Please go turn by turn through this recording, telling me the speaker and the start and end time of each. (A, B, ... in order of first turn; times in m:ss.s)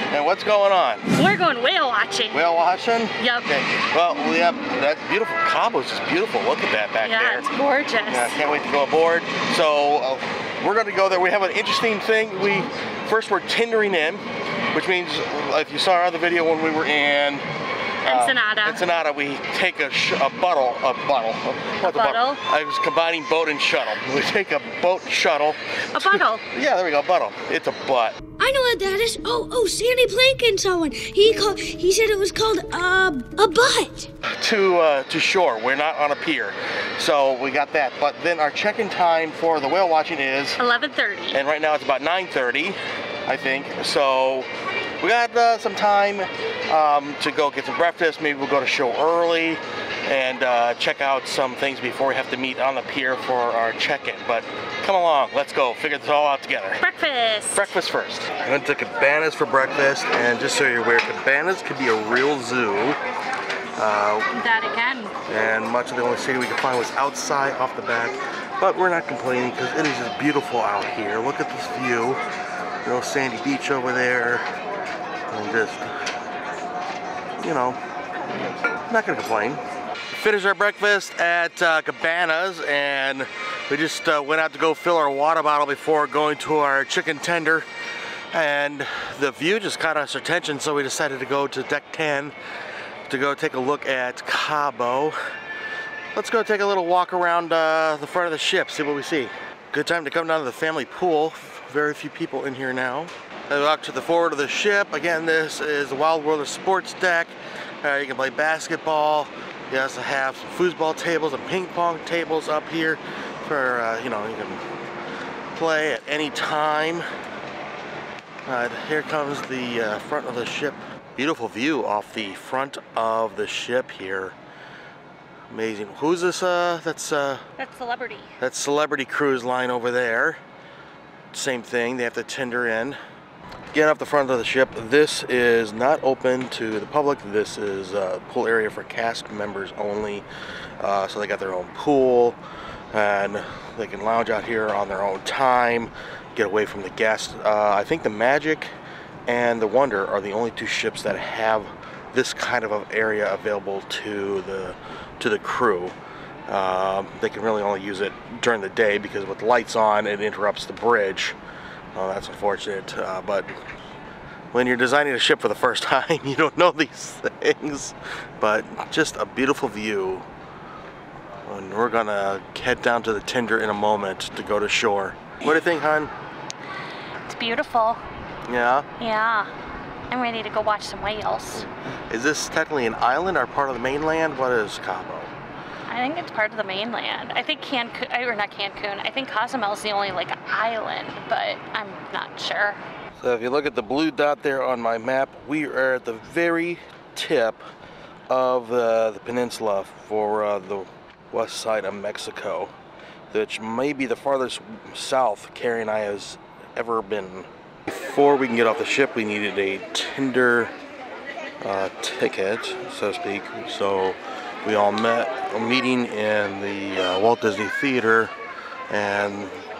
0:00.1-0:01.1 A
0:01.1-0:02.4 B
0:02.3-0:07.5 A
0:03.2-0:03.5 B
0:07.0-0:08.4 B
0:08.0-0:17.4 A
0:18.0-0:28.2 A
0:18.0-0:18.8 B
0:21.8-0:22.4 B
0:25.9-0:26.4 B
0:28.4-0:34.1 C
0:34.2-0:40.6 A
0:40.6-0:41.4 B
0:41.3-0:44.5 A
0:45.0-0:56.8 A
0:56.8-0:57.7 B
0:57.5-1:03.0 A
1:03.8-1:04.3 A
1:04.3-1:05.2 B
1:05.3-1:12.2 A
1:12.8-1:14.5 A
1:15.3-1:16.1 A
1:17.4-1:17.8 A
1:18.9-1:27.7 A
1:28.3-1:32.3 A
1:33.1-1:35.2 A
1:36.1-1:54.6 A
1:55.5-1:57.0 A
1:58.4-2:04.3 A
2:05.5-2:07.4 A
2:07.6-2:08.3 B
2:08.4-2:10.4 A
2:11.3-2:13.0 A
2:13.7-2:20.2 A
2:20.8-2:22.4 A
2:22.9-2:28.7 A
2:29.3-2:35.9 A
2:36.5-2:41.4 A
2:41.9-2:43.5 A
2:44.5-2:50.2 A
2:51.4-2:56.1 A
2:57.3-2:58.0 B
2:58.5-2:58.9 A
2:59.0-2:59.5 B
3:00.1-3:01.6 B
3:01.5-3:05.3 A
3:05.9-3:12.8 B
3:13.2-3:17.7 A
3:18.3-3:22.7 A
3:23.3-3:30.7 A
3:31.6-3:38.3 A
3:38.9-3:39.6 A